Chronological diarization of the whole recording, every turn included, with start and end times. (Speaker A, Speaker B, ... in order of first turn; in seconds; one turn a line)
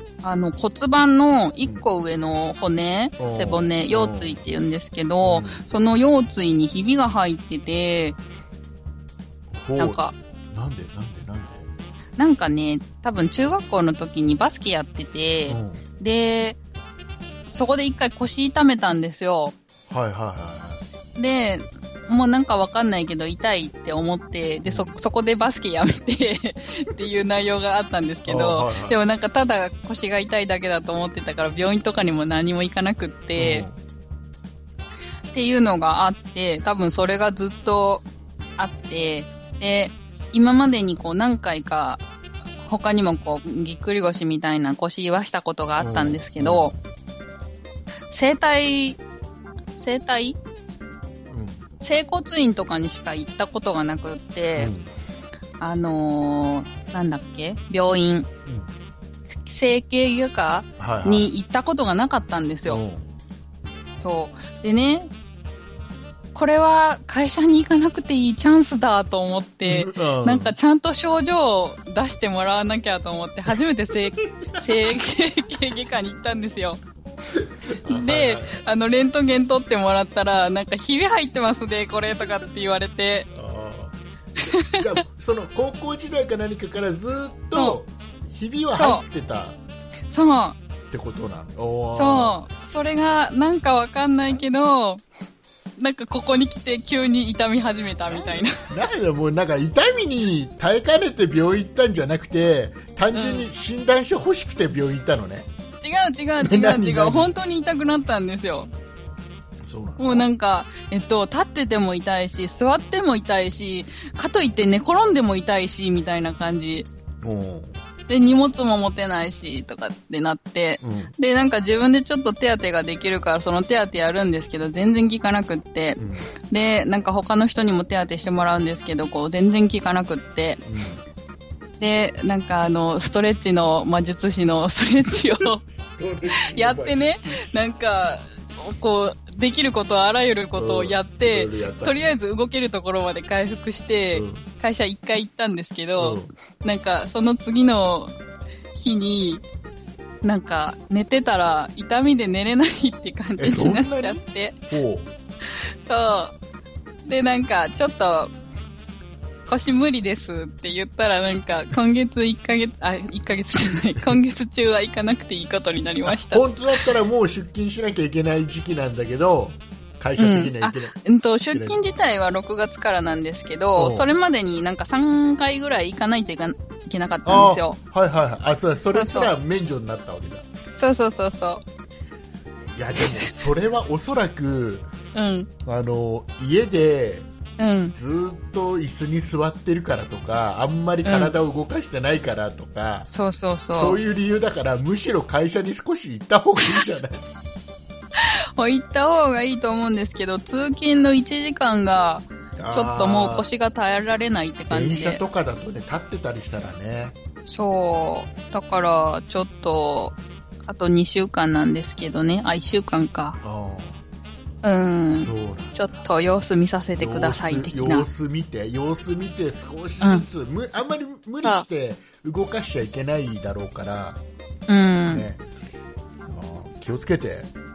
Speaker A: 0.2-8.2
Speaker B: 3.2-4.4
Speaker B: 5.2-5.7
Speaker B: 9.5-10.0
Speaker A: 9.8-10.2
Speaker B: 10.5-11.7
Speaker A: 12.2-16.6
Speaker B: 15.5-15.8
Speaker A: 17.5-19.6
Speaker B: 19.9-20.9
Speaker A: 21.2-33.7
Speaker B: 24.7-24.9
Speaker B: 28.3-29.0
Speaker B: 33.4-33.8
Speaker A: 35.3-38.1
Speaker A: 38.6-42.0
Speaker A: 42.6-46.7
Speaker B: 45.8-46.8
Speaker A: 48.1-49.0
Speaker A: 49.8-50.4
Speaker B: 51.3-51.6
Speaker A: 51.8-54.7
Speaker B: 54.6-54.9
Speaker A: 55.6-58.3
Speaker B: 58.5-58.7
Speaker A: 59.4-62.8
Speaker B: 60.8-61.3
Speaker B: 62.7-63.1
Speaker A: 64.0-65.1
Speaker A: 66.3-76.8
Speaker B: 69.7-70.6
Speaker B: 74.2-74.9
Speaker B: 77.3-78.6
Speaker A: 77.9-83.3
Speaker B: 83.3-83.9
Speaker A: 84.4-84.8
Speaker B: 84.5-89.6
Speaker A: 88.8-89.0
Speaker A: 90.1-90.6
Speaker B: 90.9-92.4
Speaker A: 92.0-95.0
Speaker A: 95.8-98.7
Speaker B: 98.1-105.5
Speaker A: 103.1-103.5
Speaker A: 105.8-108.7
Speaker B: 106.4-107.3
Speaker B: 109.7-110.3
Speaker A: 110.0-116.9
Speaker B: 117.2-117.8
Speaker A: 118.1-130.6
Speaker B: 120.8-121.1
Speaker B: 126.0-126.3
Speaker B: 130.7-131.0
Speaker A: 131.8-135.6
Speaker B: 135.9-137.6
Speaker A: 136.4-148.2
Speaker B: 140.6-142.1
Speaker B: 144.1-144.5
Speaker B: 146.0-146.3
Speaker A: 148.7-149.4
Speaker A: 150.2-154.6
Speaker B: 153.4-155.1
Speaker A: 155.5-156.4
Speaker A: 157.1-158.3
Speaker A: 159.5-166.9
Speaker B: 166.0-170.9
Speaker A: 170.2-177.8
Speaker B: 171.5-171.8
Speaker B: 173.8-174.1
Speaker B: 177.2-180.4
Speaker A: 178.9-179.3
Speaker A: 180.8-181.6
Speaker B: 182.8-184.9
Speaker A: 185.1-185.5
Speaker B: 185.7-187.3
Speaker A: 187.6-187.9
Speaker B: 187.9-193.1
Speaker A: 191.1-191.3
Speaker A: 193.1-194.0
Speaker B: 193.7-197.3
Speaker A: 198.2-205.2
Speaker B: 202.6-203.4
Speaker B: 204.7-207.2
Speaker A: 207.5-213.4
Speaker B: 213.4-214.0
Speaker A: 214.6-218.1
Speaker B: 215.2-216.0
Speaker B: 217.0-224.2
Speaker A: 220.0-220.3
Speaker A: 224.7-225.3
Speaker B: 225.1-225.4
Speaker B: 226.3-227.5